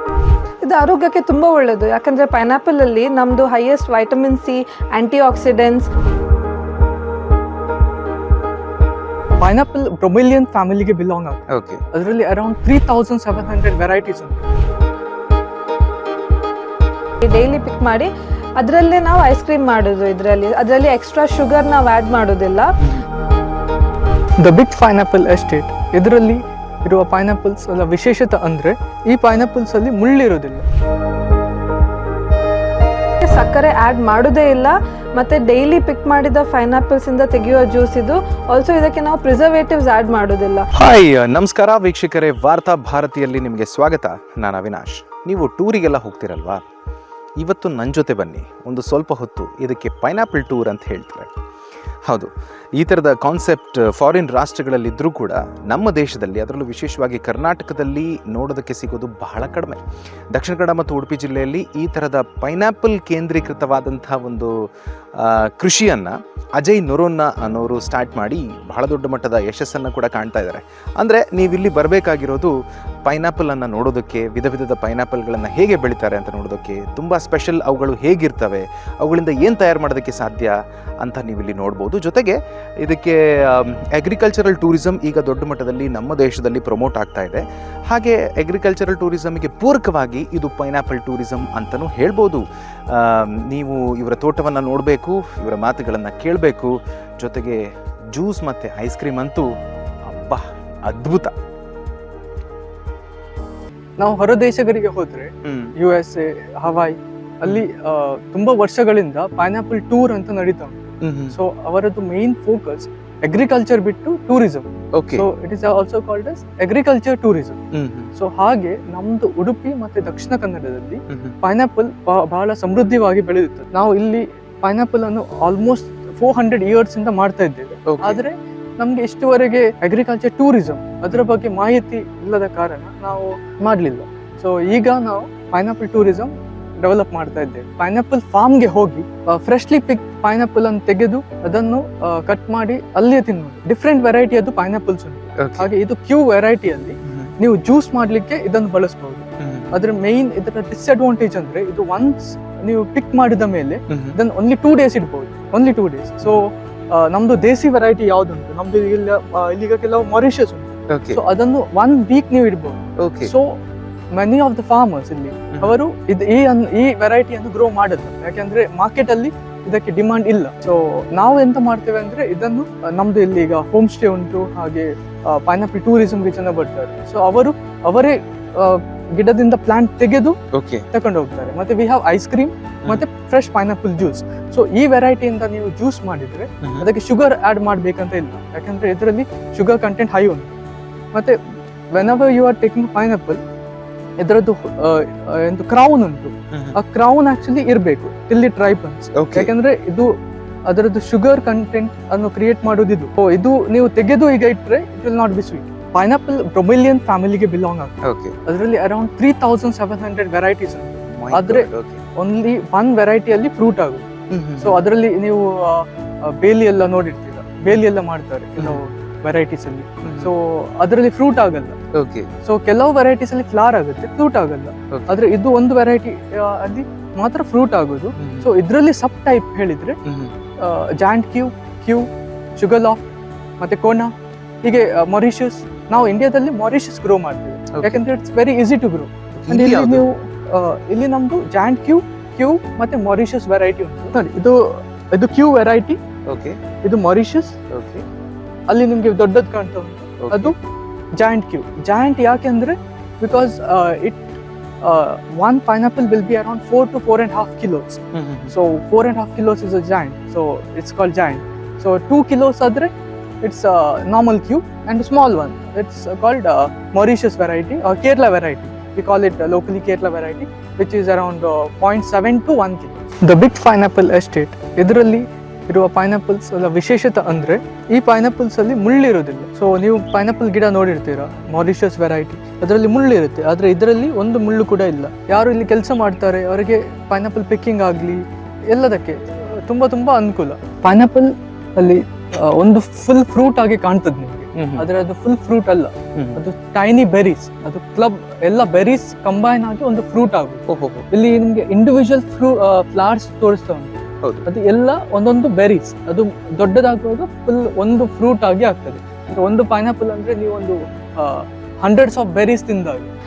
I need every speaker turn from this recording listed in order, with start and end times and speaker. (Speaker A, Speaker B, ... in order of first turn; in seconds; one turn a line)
Speaker A: 0.6-5.9
Speaker B: 9.4-11.4
Speaker C: 11.5-11.8
Speaker B: 11.9-14.4
Speaker A: 17.2-22.7
Speaker B: 24.4-30.6
Speaker A: 33.2-40.7
Speaker C: 40.7-46.6
Speaker C: 47.4-51.3
Speaker C: 52.1-59.8
Speaker C: 60.3-64.5
Speaker C: 65.2-72.5
Speaker C: 73.1-97.6
Speaker C: 98.1-99.5
Speaker C: 100.1-101.3
Speaker B: 104.0-110.8
Speaker C: 105.4-105.7
Speaker C: 111.0-111.4
Speaker B: 111.3-117.6
Speaker C: 115.0-115.3
Speaker C: 117.7-118.1
Speaker B: 118.2-163.6
Speaker C: 121.1-121.3
Speaker C: 127.9-128.2
Speaker C: 145.4-145.7
Speaker C: 147.1-147.3
Speaker C: 149.4-149.8
Speaker C: 153.9-154.2
Speaker C: 160.9-161.2
Speaker C: 163.0-163.3
Speaker B: 164.1-180.4
Speaker C: 165.5-165.8
Speaker C: 180.5-180.9
Speaker B: 180.9-190.6
Speaker B: 191.1-191.4
Speaker B: 191.9-193.4
Speaker B: 194.2-207.9
Speaker C: 196.5-196.8
Speaker C: 199.2-199.5
Speaker C: 208.1-208.3
Speaker B: 208.5-214.1
Speaker C: 211.2-212.0
Speaker C: 214.3-214.8
Speaker B: 214.6-221.8
Speaker C: 218.6-218.9
Speaker C: 220.0-220.3
Speaker C: 221.9-222.3
Speaker B: 222.4-230.0
Speaker C: 224.9-225.2
Speaker C: 228.2-228.5
Speaker C: 230.1-230.3
Speaker B: 230.6-234.1
Speaker B: 234.6-246.0
Speaker C: 237.7-238.0
Speaker C: 239.4-240.1
Speaker C: 246.3-246.6
Speaker B: 246.8-247.6
Speaker C: 247.7-248.0
Speaker B: 248.7-250.6
Speaker C: 250.2-250.5
Speaker B: 251.2-254.3
Speaker B: 254.8-313.1
Speaker C: 258.1-258.6
Speaker C: 294.6-294.9
Speaker C: 296.1-296.4
Speaker C: 300.7-301.1